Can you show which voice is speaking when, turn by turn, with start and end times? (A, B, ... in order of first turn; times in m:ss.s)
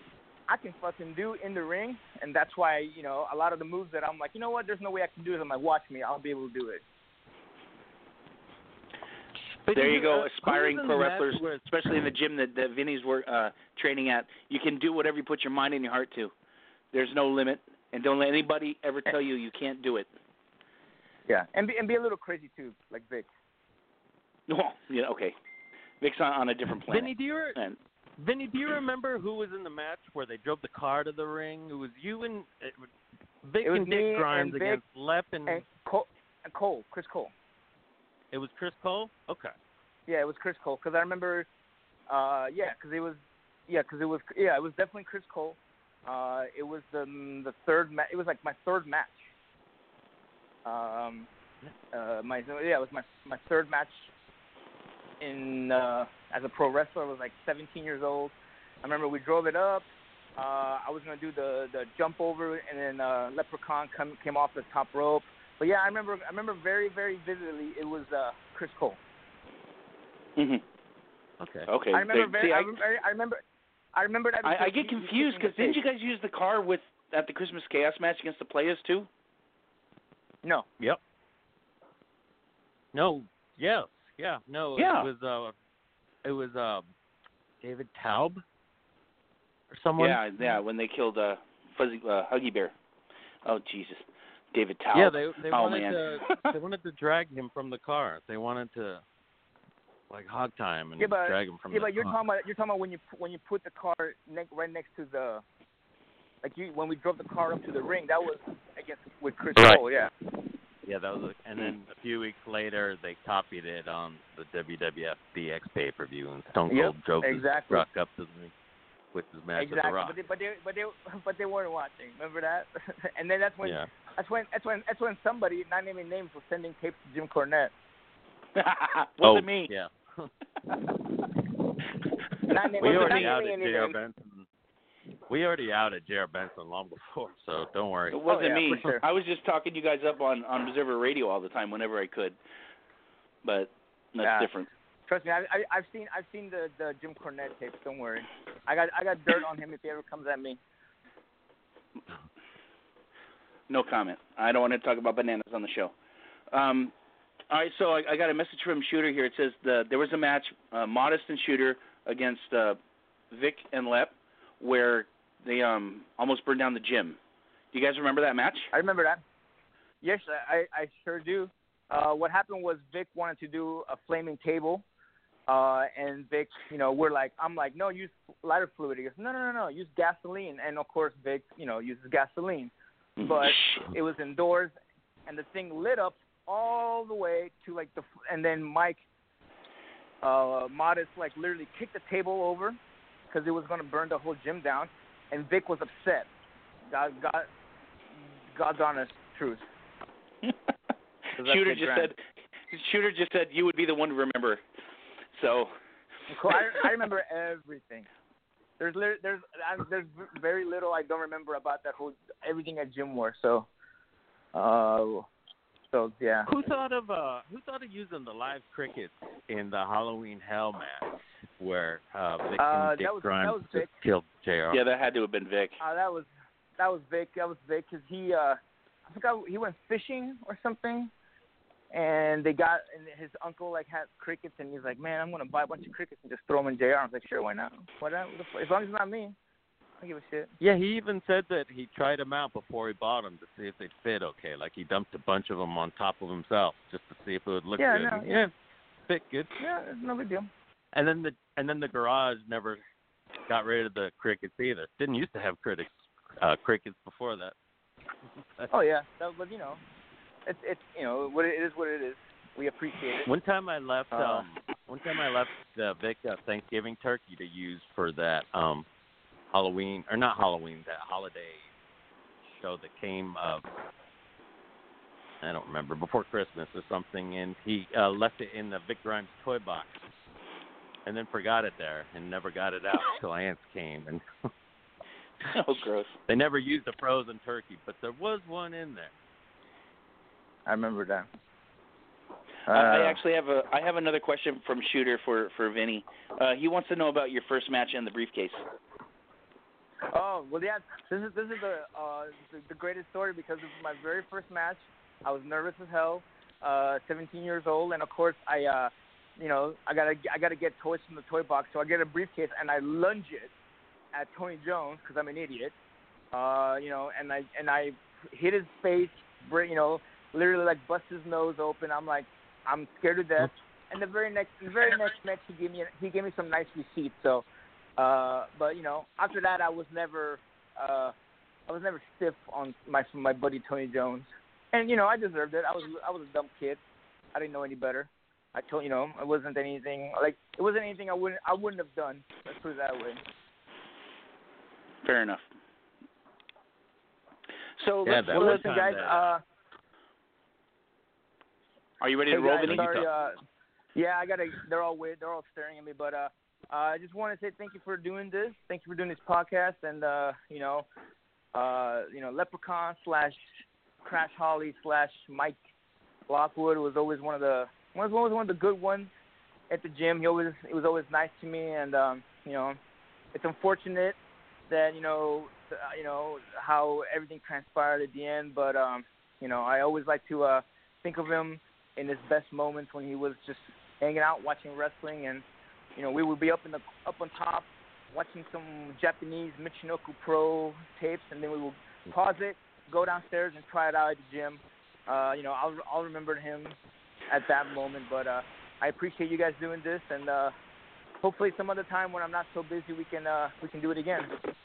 0:00.5-0:06.8 A
0:09.7-0:11.6 B
0:09.7-0:16.3 C
0:16.9-0:20.1 C
0:21.3-0:23.3 A
0:24.5-0:25.4 C
0:26.0-0:27.8 C
0:26.9-0:27.6 B
0:28.2-0:32.9 B
0:33.4-0:35.6 B
0:33.6-0:34.8 A
0:35.5-0:37.3 A
0:38.3-0:39.5 B
0:40.1-0:41.5 A
0:42.1-0:49.2 A
0:50.6-0:51.3 A
0:51.9-0:54.1 A
0:55.2-0:59.9 A
1:00.4-1:09.0 A
1:10.4-1:10.6 C
1:11.4-1:11.7 B
1:11.7-1:12.8 C
1:11.9-1:13.4 A
1:13.9-1:15.8 A
1:14.4-1:19.1 C
1:22.9-1:25.6 B
1:24.8-1:25.1 C
1:26.2-1:26.9 B
1:27.6-1:28.4 B
1:29.7-1:30.2 B
1:30.0-1:32.7 C
1:33.4-1:36.5 C
1:34.9-1:39.0 B
1:40.1-1:42.2 B
1:41.0-1:45.4 A
1:46.4-1:50.1 A
1:49.6-1:49.8 B
1:50.8-1:58.5 B
1:56.7-1:57.8 A
1:59.1-2:00.2 B
1:59.6-2:07.7 A
2:03.6-2:03.9 B
2:08.6-2:09.7 C
2:09.2-2:10.3 B
2:12.5-2:14.0 A
2:12.8-2:14.5 B
2:12.8-2:13.3 C
2:15.3-2:18.2 B
2:18.1-2:22.4 C
2:18.3-2:19.0 A
2:23.4-2:24.7 C
2:24.2-2:24.5 A
2:25.1-2:30.6 A
2:33.7-2:35.9 C
2:36.5-2:36.9 C
2:37.5-2:42.8 C
2:43.3-2:47.2 C
2:47.7-2:48.7 C
2:48.7-2:49.2 A
2:50.0-2:54.8 A
2:55.5-3:04.8 A
3:03.2-3:03.9 C
3:05.3-3:09.0 A
3:10.2-3:12.8 A
3:13.3-3:16.3 A
3:16.9-3:17.5 A
3:18.5-3:19.6 A
3:21.4-3:22.1 A
3:21.4-3:22.2 C
3:22.7-3:24.6 C
3:25.4-3:25.7 C
3:26.3-3:28.1 A
3:26.5-3:26.8 C
3:28.8-3:33.7 A
3:34.5-3:35.3 A
3:35.9-3:36.5 A
3:36.5-3:44.8 B
3:42.6-3:43.9 A
3:44.7-3:45.8 C
3:45.8-3:46.3 A
3:46.8-3:51.1 A
3:51.9-3:59.4 A
4:00.0-4:00.5 A
4:00.6-4:08.5 B
4:07.8-4:08.3 A
4:09.1-4:09.5 B
4:09.6-4:10.5 A
4:10.9-4:12.8 B
4:13.5-4:17.6 B
4:18.7-4:19.8 A
4:20.5-4:23.3 A
4:23.2-4:28.9 B
4:24.2-4:24.4 C
4:29.5-4:31.7 B
4:32.5-4:33.6 B
4:35.4-4:40.1 B
4:41.0-4:44.2 B
4:45.5-4:46.2 C
4:46.3-4:49.1 B
4:50.7-4:51.3 A
4:52.7-4:53.2 A
4:52.7-4:58.6 C
5:00.1-5:13.5 A
5:14.1-5:15.7 A
5:16.3-5:27.4 A
5:28.0-5:31.1 A
5:31.7-5:36.8 A
5:37.3-5:43.2 A
5:45.0-5:45.4 C
5:47.8-5:48.7 C
5:48.0-5:49.2 B
5:48.1-5:49.4 A
5:52.0-5:53.1 C
5:52.3-5:53.4 A
5:52.7-5:53.1 B
5:54.0-6:00.9 A
6:01.5-6:05.6 A
6:06.3-6:09.1 A
6:09.7-6:12.8 A
6:13.3-6:14.2 A
6:14.7-6:25.4 A
6:26.0-6:36.8 A
6:37.3-6:40.5 A
6:41.2-6:44.3 A